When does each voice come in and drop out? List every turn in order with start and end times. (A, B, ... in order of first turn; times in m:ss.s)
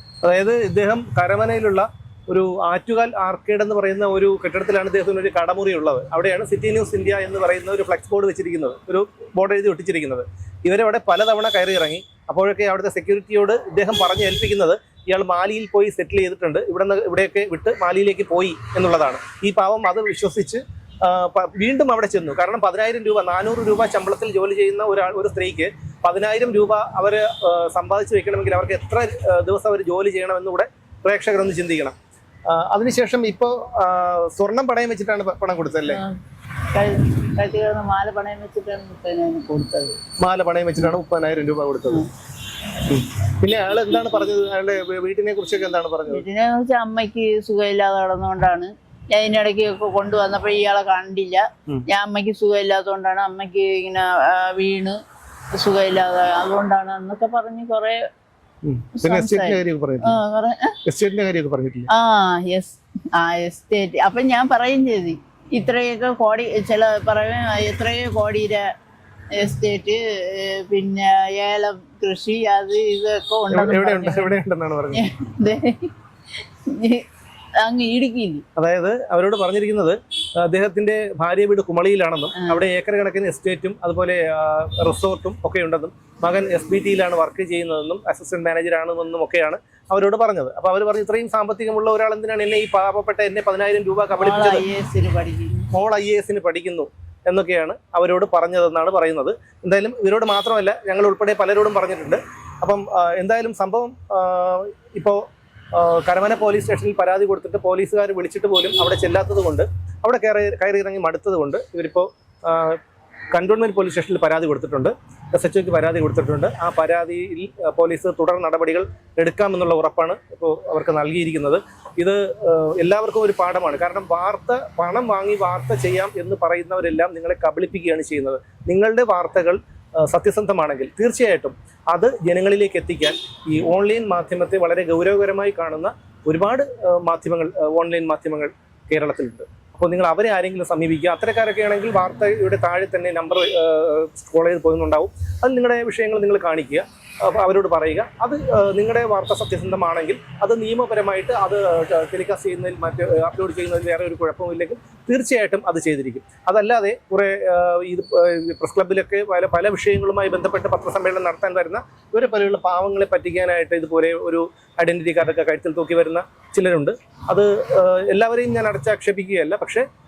0:00.2-0:31.9 A
0:32.5-0:36.0 A
0:35.9-0:36.2 B
0:36.7-0:40.0 B
0:40.2-0:42.0 A
0:42.8-0:46.2 A
0:46.1-0:55.0 B
0:55.5-0:58.1 B
0:58.6-1:00.2 A
0:58.9-1:00.8 B
1:00.8-1:01.9 A
1:01.9-1:08.7 B
1:09.3-1:14.3 B
1:13.5-1:15.1 A
1:14.9-1:15.9 B
1:16.6-1:17.0 B
1:17.6-1:18.4 B
1:18.6-1:34.6 A
1:22.4-1:22.6 B
1:34.2-1:35.7 B
1:35.7-1:45.2 A
1:45.7-1:52.8 A
1:53.3-2:49.8 A